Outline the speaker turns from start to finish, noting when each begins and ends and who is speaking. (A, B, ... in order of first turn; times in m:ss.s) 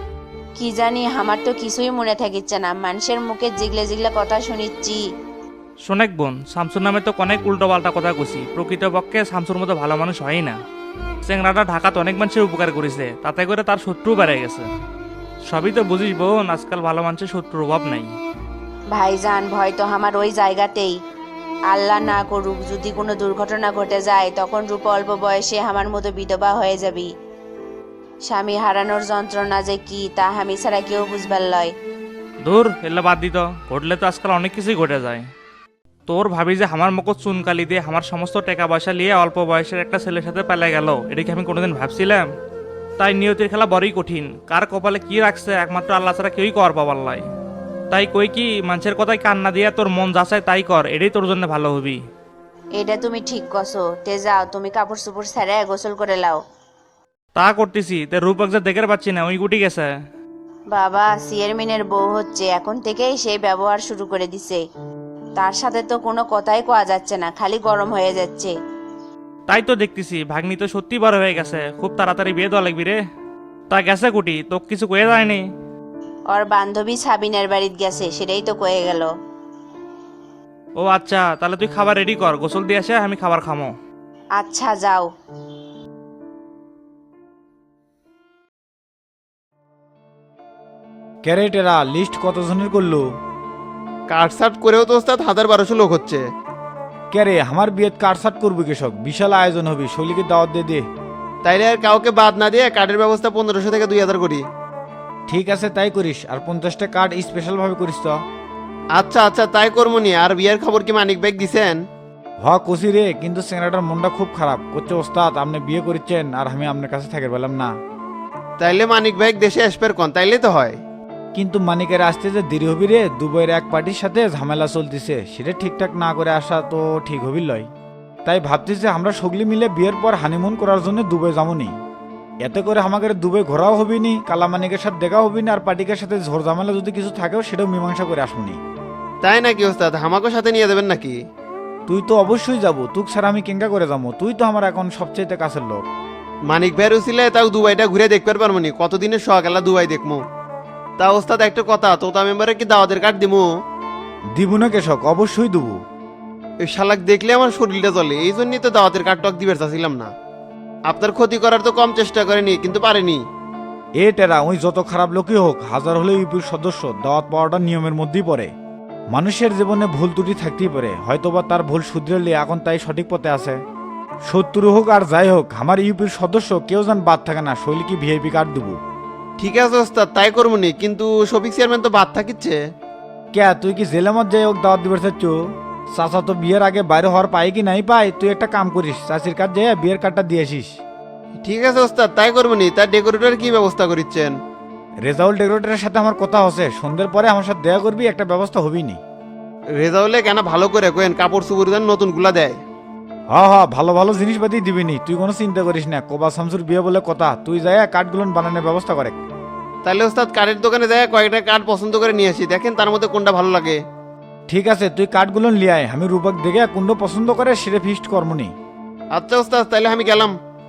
0:00.6-0:05.0 A
0:05.9-0:10.6 B
0:11.2-0:14.7 B
0:15.5-0:18.1 B
0:18.9-0:21.0 A
0:21.7-0:27.1 A
0:28.3-0:31.7 A
0:32.4-0:35.2 B
0:36.1-0:42.2 B
0:43.0-0:47.2 B
0:47.9-0:52.0 B
0:52.8-0:56.4 A
0:57.4-0:59.9 B
1:00.7-1:04.6 A
1:05.4-1:08.5 A
1:09.5-1:13.0 B
1:13.7-1:15.4 B
1:16.3-1:19.1 A
1:20.8-1:23.7 B
1:24.4-1:25.1 A
1:31.2-1:33.1 C
1:34.1-1:36.2 D
1:37.1-1:40.9 C
1:41.4-1:44.4 D
1:45.3-1:48.2 C
1:49.0-1:51.8 D
1:52.4-1:57.7 C
1:58.6-2:00.8 D
2:01.4-2:07.7 C
2:08.2-2:11.8 C
2:12.4-2:18.6 C
2:19.2-2:21.2 D
2:21.9-2:25.9 C
2:26.5-2:30.3 D
2:31.0-2:33.5 D
2:34.3-2:35.8 C
2:36.6-2:40.1 D
2:40.9-2:43.2 D
2:44.0-2:48.5 C
2:49.1-2:53.6 C
2:54.3-2:58.8 C
2:59.4-3:02.6 D
3:03.3-3:05.4 C
3:05.9-3:10.8 C
3:11.4-3:14.3 D
3:15.0-3:19.0 C
3:19.8-3:22.6 D
3:23.3-3:29.2 C
3:29.8-3:33.8 D
3:34.5-3:38.6 C
3:39.1-3:40.4 D